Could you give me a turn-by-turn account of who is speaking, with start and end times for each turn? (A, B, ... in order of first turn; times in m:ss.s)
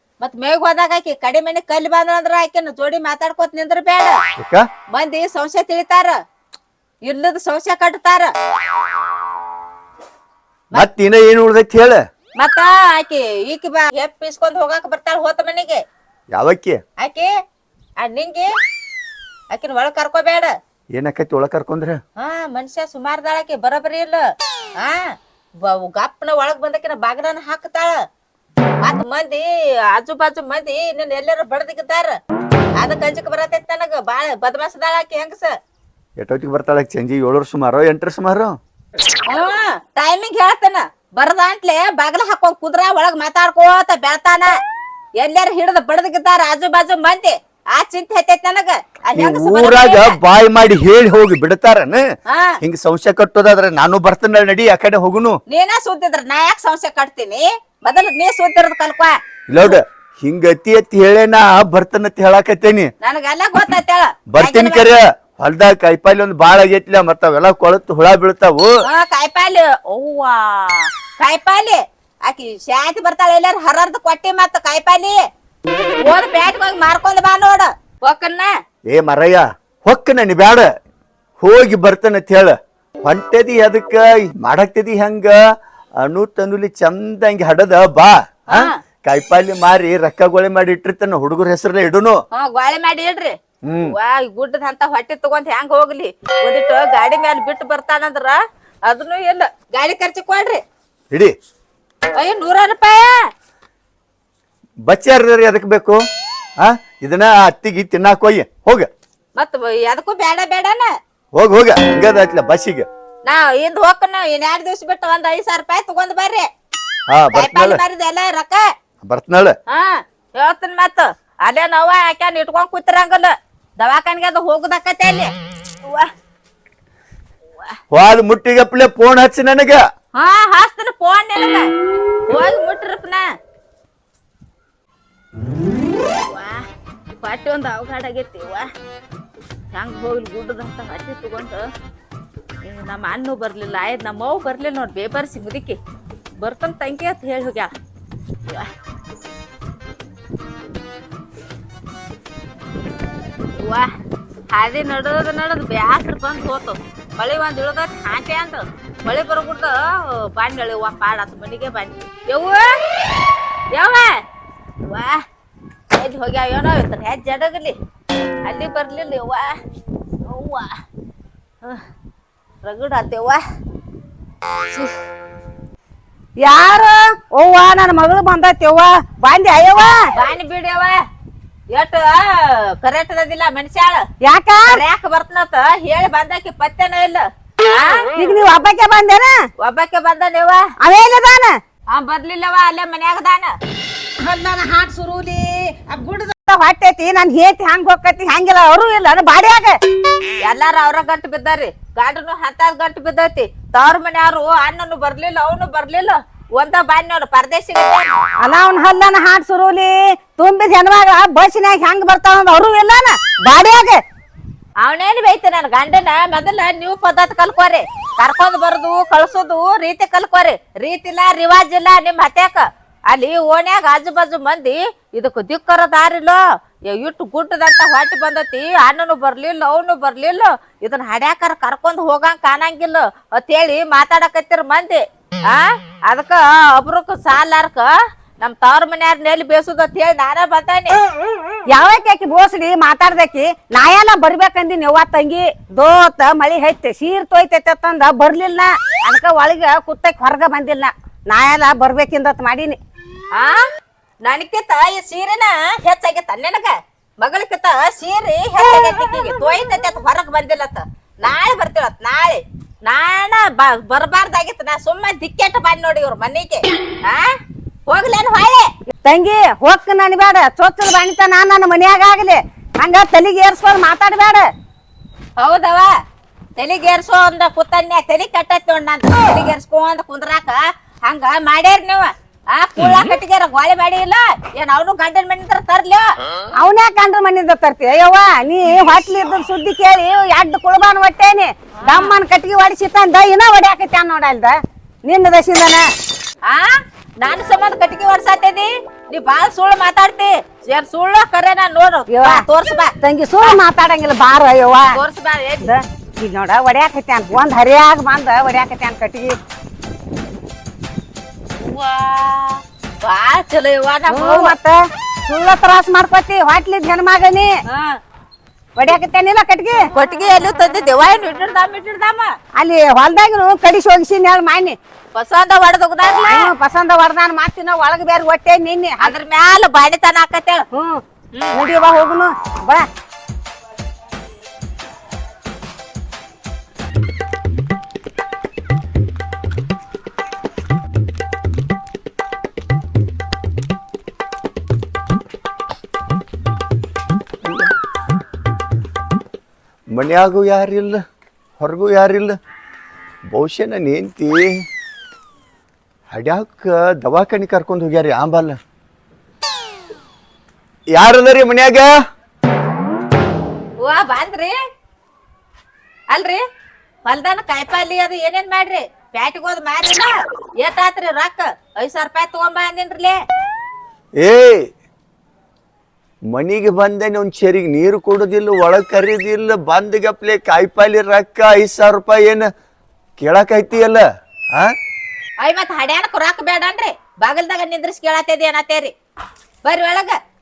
0:00.2-0:04.2 A
0:04.4-0:04.6 B
0:04.9-0:06.1 A
0:07.0-0:08.3 A
0:10.7-0:12.0 B
0:12.4-0:15.8 A
0:16.3-0:16.8 B
0:17.0-0:17.3 A
0:18.0-0:18.5 A
0:19.5-0:20.5 A
0:20.9-0:22.0 B
0:22.2-0:24.2 A
0:24.8-0:28.0 A
0:28.8-0:32.1 A
0:32.8-0:35.6 A
0:36.2-0:38.5 B
0:39.2-0:44.5 A
0:45.2-0:50.2 A
0:49.1-0:52.0 B
0:52.3-0:52.6 A
0:52.6-0:55.4 B
0:55.5-0:59.7 A
0:59.5-1:02.9 B
1:03.0-1:04.9 A
1:04.3-1:08.7 B
1:08.8-1:15.2 A
1:16.0-1:18.6 A
1:18.9-1:20.6 B
1:21.4-1:25.4 B
1:26.0-1:32.2 B
1:28.5-1:28.8 A
1:32.3-1:40.6 A
1:33.6-1:33.9 B
1:42.1-1:43.2 A
1:44.8-1:46.0 B
1:46.6-1:48.9 B
1:49.4-1:50.9 A
1:51.3-1:52.9 B
1:53.2-1:56.5 A
1:57.1-1:57.8 B
1:57.3-1:58.6 A
1:59.0-1:59.5 B
1:59.7-2:05.3 A
2:05.8-2:06.1 A
2:07.9-2:09.8 B
2:10.1-2:11.7 A
2:12.3-2:13.2 A
2:16.2-2:16.6 A
2:17.2-2:18.7 A
2:19.7-2:21.7 A
2:22.6-2:25.8 A
2:26.4-2:27.7 A
2:33.5-2:33.9 A
2:34.5-2:42.7 A
2:43.7-2:44.2 A
2:44.8-2:45.2 A
2:45.9-2:47.8 A
2:48.4-2:49.5 A
2:50.2-2:50.7 A
2:52.6-2:53.4 A
2:56.4-3:00.0 C
3:00.1-3:01.0 A
3:01.7-3:04.0 A
3:04.2-3:04.8 C
3:04.7-3:08.1 A
3:08.1-3:09.3 C
3:09.6-3:10.6 A
3:10.8-3:11.6 C
3:11.9-3:13.6 A
3:14.2-3:19.8 C
3:20.4-3:28.1 A
3:28.4-3:34.0 C
3:34.8-4:01.0 A
4:01.7-4:12.8 C
4:13.4-4:13.6 A
4:14.2-4:27.3 A
4:27.9-4:28.7 A
4:29.0-4:34.5 C
4:35.4-4:35.9 A
4:36.6-4:46.0 A
4:46.6-4:55.8 C
4:51.8-4:52.1 A
4:56.4-5:03.6 A
5:02.1-5:02.4 C
5:03.0-5:05.0 C
5:04.9-5:05.7 A
5:05.6-5:09.4 C
5:11.6-5:14.6 A
5:14.1-5:17.5 C
5:17.7-5:18.0 A
5:18.8-5:19.9 C
5:19.9-5:22.3 A
5:22.6-5:24.8 C
5:25.1-5:26.5 A
5:26.2-5:29.1 C
5:29.0-5:30.6 A
5:30.7-5:31.0 C
5:31.3-5:31.6 A
5:31.5-5:32.8 C
5:47.4-5:47.7 B
5:49.9-5:51.0 B
5:51.6-5:52.3 B
5:53.3-5:54.5 B
5:56.1-5:58.6 B
6:00.9-6:01.9 B
6:03.8-6:04.6 A
6:06.1-6:06.4 A
6:07.0-6:13.2 A
6:14.2-6:14.7 B
6:16.3-6:22.4 B
6:23.2-6:24.7 B
6:25.4-6:28.9 A
6:29.6-6:30.2 A